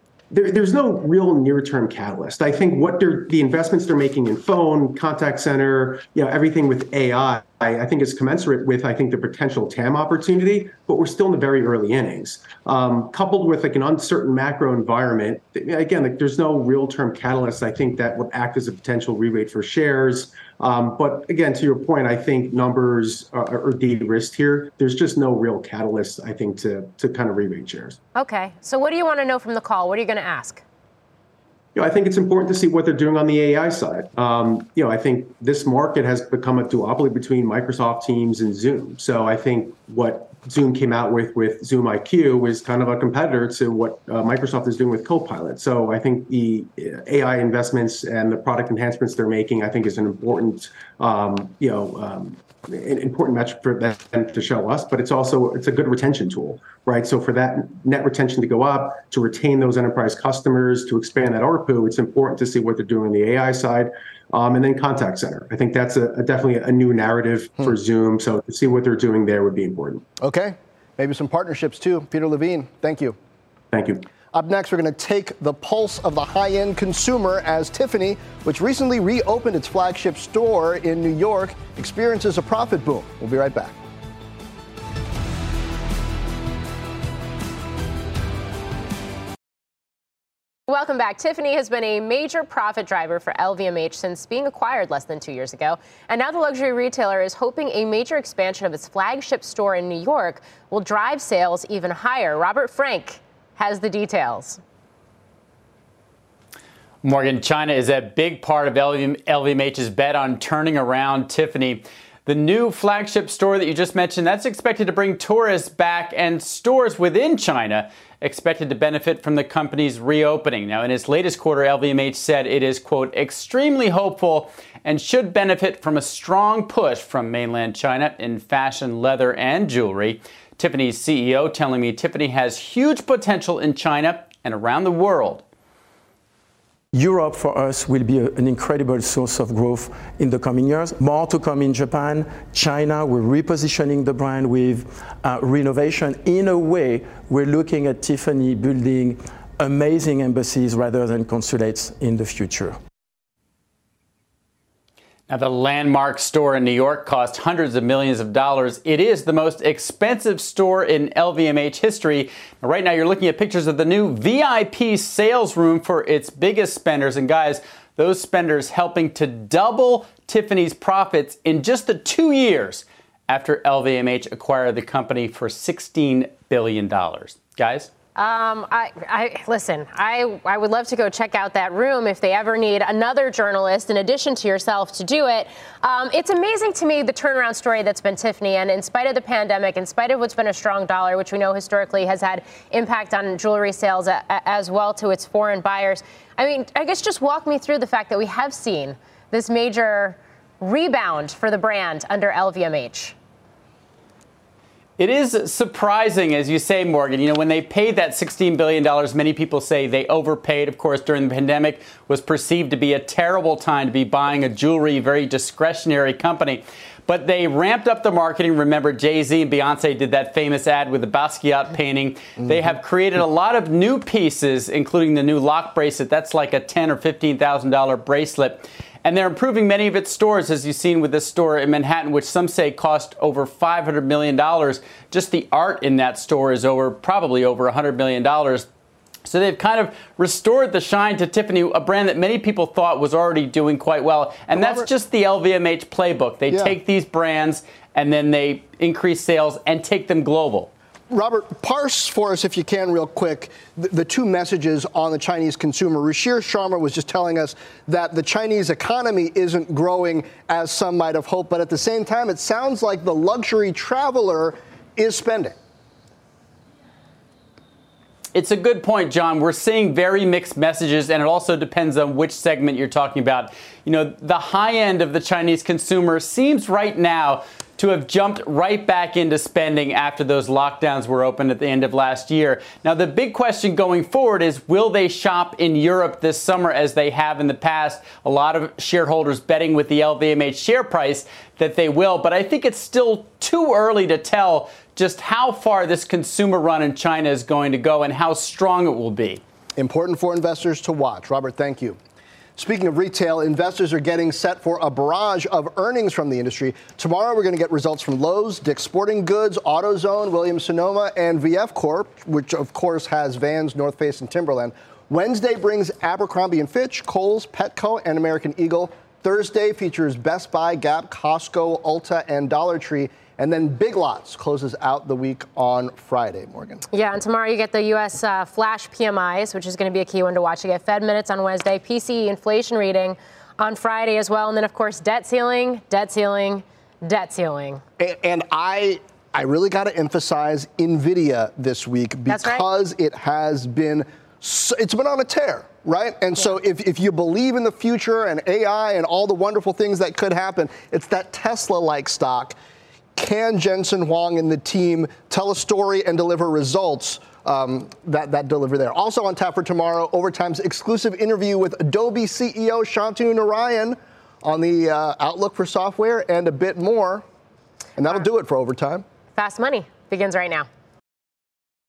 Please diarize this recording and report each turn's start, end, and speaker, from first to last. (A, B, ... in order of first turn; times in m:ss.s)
0:00.3-0:28.0 A
0:28.2-0:30.6 B
0:31.8-1:10.1 A
1:10.2-1:13.2 C
1:13.7-1:14.1 A
1:14.3-1:23.8 C
1:30.7-1:44.6 B
1:47.0-2:15.4 D
2:16.9-2:32.8 E
2:35.3-2:57.9 D
2:58.2-3:23.2 B
3:25.0-3:58.7 D
3:59.3-4:10.7 D
4:04.5-4:04.9 C
4:06.5-4:06.8 C
4:11.1-4:25.6 C
4:28.3-4:59.4 D
4:59.8-5:02.0 C
5:02.6-5:26.8 C
5:26.9-5:37.8 B
5:38.0-5:52.6 C
5:42.3-5:42.6 B
5:53.2-6:07.2 C
6:08.0-6:09.0 C
6:09.4-6:10.7 B